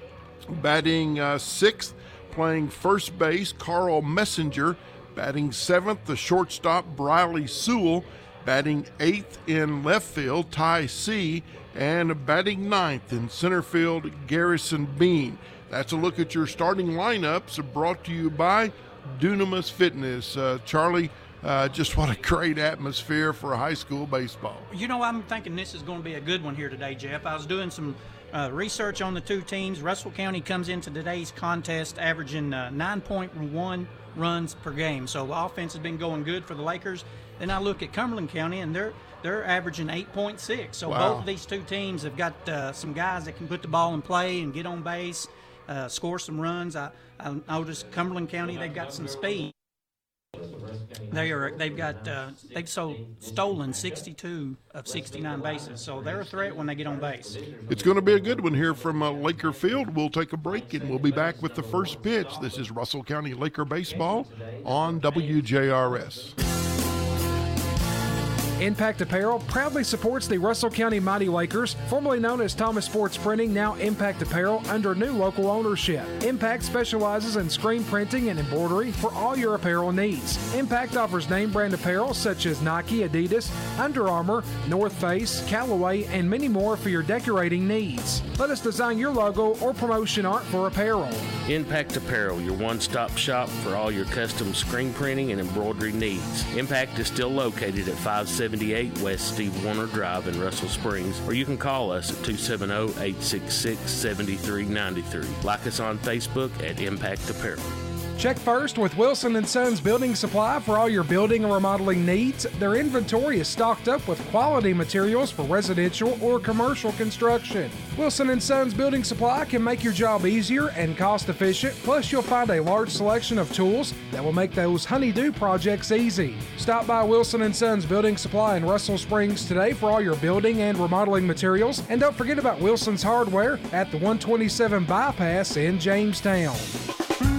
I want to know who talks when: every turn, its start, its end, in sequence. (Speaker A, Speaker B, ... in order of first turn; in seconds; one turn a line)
Speaker A: 0.5-24.7
Speaker B: 24.7-49.5
Speaker A: 40.9-41.3
Speaker B: 51.1-57.4
Speaker A: 57.7-66.4
Speaker C: 68.6-91.3
Speaker D: 91.4-107.7
Speaker C: 108.2-136.8